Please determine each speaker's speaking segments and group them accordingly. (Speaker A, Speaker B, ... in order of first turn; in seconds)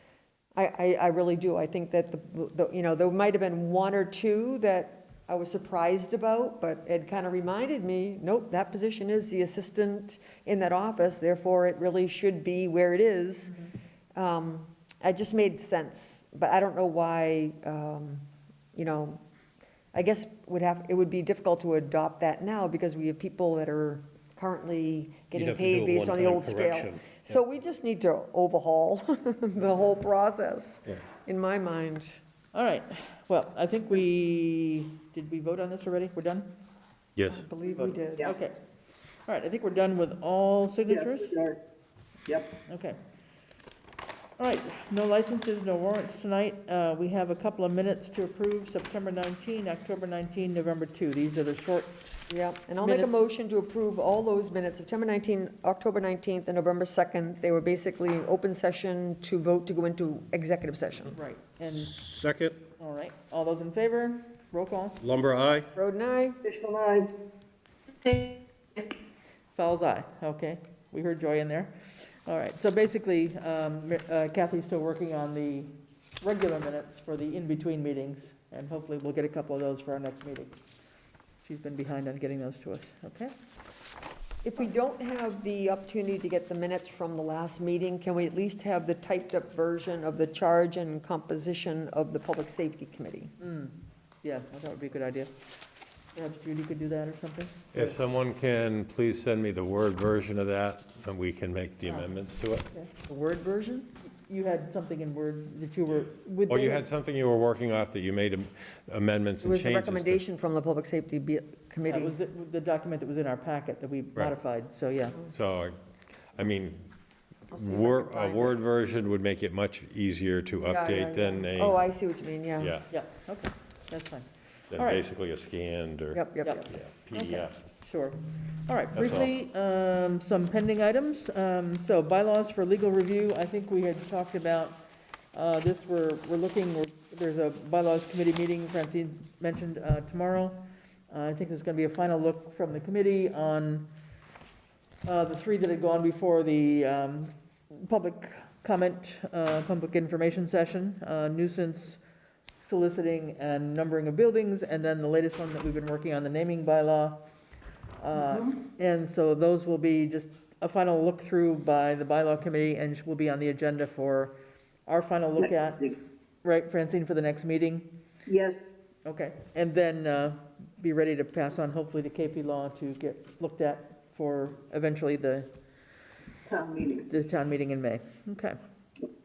Speaker A: 0.6-13.6, 14.1-19.2, 19.9-32.2, 37.3-38.3, 52.3-61.2, 65.8-66.4, 84.4-93.3, 103.1-103.9, 109.4-112.1, 117.5-118.6, 120.7-122.7, 126.1-126.7
Speaker B: 25.4-27.1, 61.9-62.6, 65.0-65.7
Speaker C: 32.5-36.6, 37.6-38.5, 39.3-41.3, 42.7-43.0, 44.4-52.1, 52.8-53.3, 61.1-62.0, 62.8-65.0, 69.6-80.6, 81.4-83.3, 93.4-95.3, 96.2-97.9, 104.0-106.8, 111.9-115.2, 122.9-125.0, 126.4-134.8, 135.3-143.9, 145.1-152.0, 152.6-157.2, 158.0-164.4, 164.9-167.9, 169.1-175.5, 177.1-178.6
Speaker D: 37.2-37.5, 97.7-102.7, 106.5-110.2, 115.2-115.8, 116.4-116.9, 117.5-121.8, 122.6-122.9, 124.7-127.5, 128.9-129.3
Speaker E: 40.9-41.6, 42.3-42.6, 66.5-67.1, 165.4-165.9, 168.3-168.7, 176.5-177.1